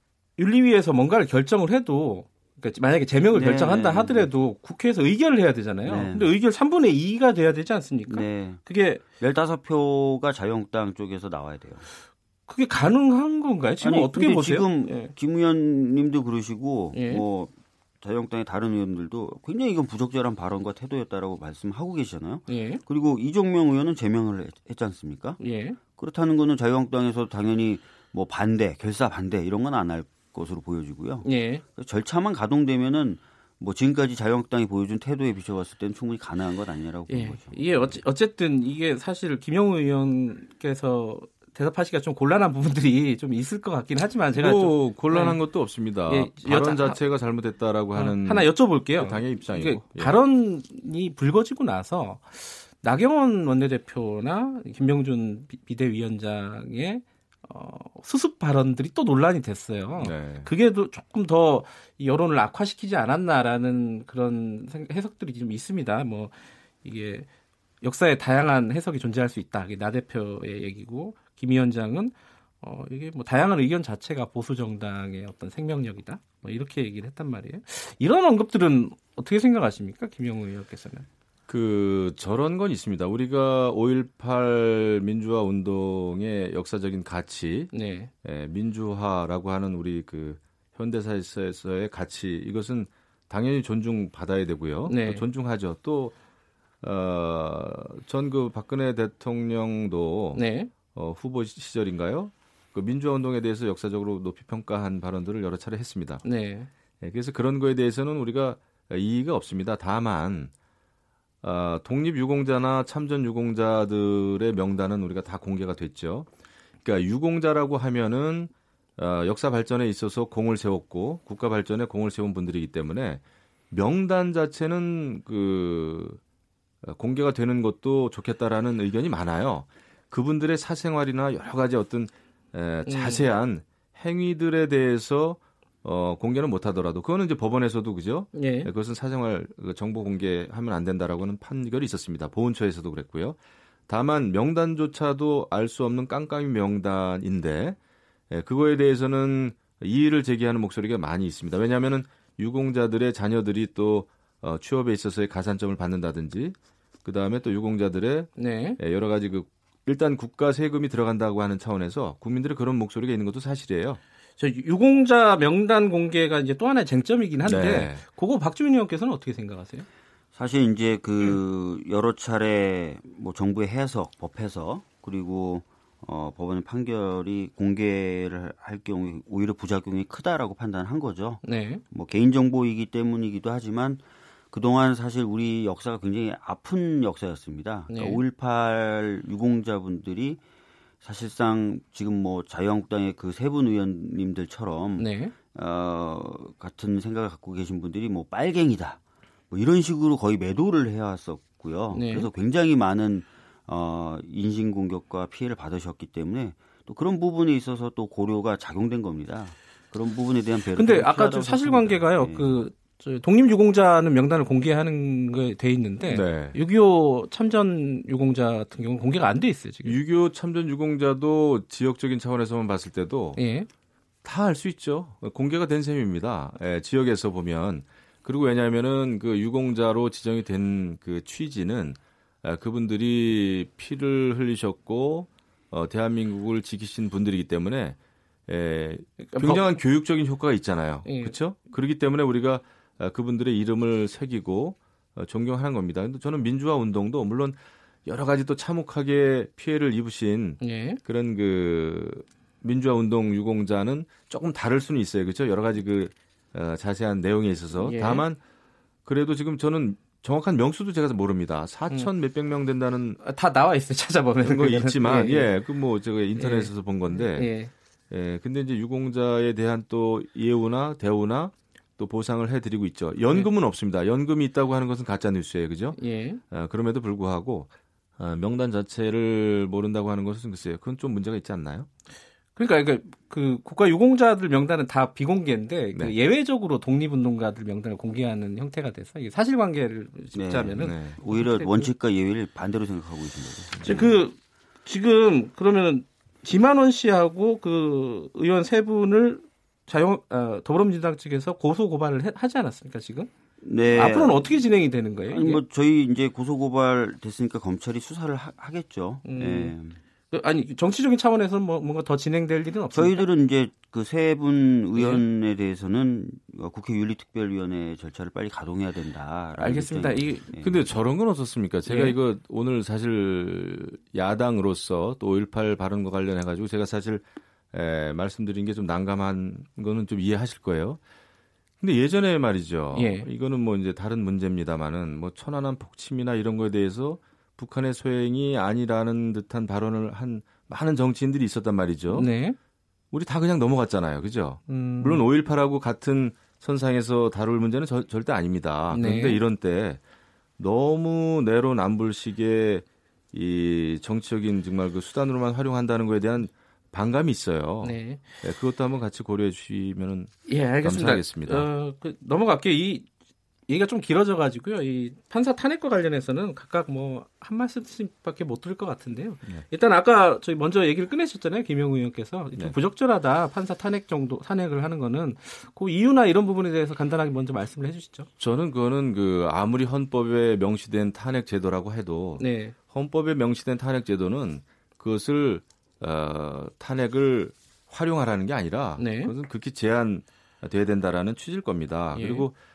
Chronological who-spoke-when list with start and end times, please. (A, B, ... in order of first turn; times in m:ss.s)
0:00.4-0:09.0 A
0:03.3-0:04.3 B
0:05.9-0:06.3 B
0:08.1-0:08.6 B
0:09.2-0:11.8 B
0:12.5-0:15.1 A
0:13.8-0:25.4 B
0:16.9-0:17.2 A
0:22.5-0:22.8 A
0:25.4-0:25.8 A
0:26.0-0:37.9 B
0:31.2-0:31.6 A
0:37.1-0:45.4 A
0:44.4-0:50.2 C
0:46.1-0:47.0 A
0:48.0-1:07.3 A
1:00.0-1:00.5 C
1:07.8-1:21.1 A
1:21.5-1:27.7 C
1:27.7-1:28.1 A
1:28.2-1:36.2 C
1:34.9-1:35.2 A
1:36.8-1:46.2 C
1:40.3-1:40.7 A
1:46.2-1:46.7 A
1:47.0-1:50.5 C
1:51.4-1:56.3 C
1:56.8-2:06.2 C
2:06.8-2:23.4 C
2:12.9-2:13.2 A
2:18.4-2:18.7 A
2:23.9-2:27.8 C
2:28.3-2:44.0 C
2:38.4-2:38.8 A
2:44.4-2:49.9 A
2:47.4-2:48.0 C
2:50.4-3:10.4 B
3:01.4-3:01.8 A
3:07.9-3:08.2 A
3:11.0-3:19.0 B
3:15.0-3:15.4 A
3:19.5-3:32.6 B
3:21.9-3:22.3 A
3:30.8-3:40.0 A
3:36.1-3:36.6 C
3:39.8-3:43.4 C
3:43.4-3:43.7 A
3:44.2-3:58.0 C
3:58.5-4:18.4 C
3:59.2-3:59.6 A
4:01.0-4:01.4 A
4:10.6-4:11.0 A
4:17.8-4:18.2 A
4:19.0-4:23.2 C
4:23.2-4:25.5 A
4:24.4-4:27.5 C
4:26.4-4:27.7 A
4:28.1-4:36.0 C
4:36.0-4:36.4 A
4:36.5-4:41.9 C
4:42.6-4:51.9 A
4:50.3-4:54.2 B
4:50.8-4:51.2 C
4:53.8-5:03.3 A
5:03.6-5:04.4 B
5:03.9-5:05.6 A
5:05.3-5:10.0 B
5:09.2-5:09.7 A
5:10.3-5:13.3 A
5:12.9-5:20.9 B
5:15.0-5:15.2 A
5:19.6-5:20.5 A
5:20.6-5:31.0 C
5:21.9-5:22.2 A
5:31.8-5:42.3 C
5:32.9-5:33.3 A
5:42.1-5:42.6 A
5:43.1-5:50.0 C
5:44.7-5:45.2 A
5:48.9-5:49.4 A
5:50.6-6:01.7 C
5:57.8-5:58.2 A
6:00.5-6:03.1 A
6:03.7-6:18.3 A
6:18.4-6:32.5 C
6:22.4-6:22.7 A
6:29.0-6:29.3 A
6:32.2-6:32.5 A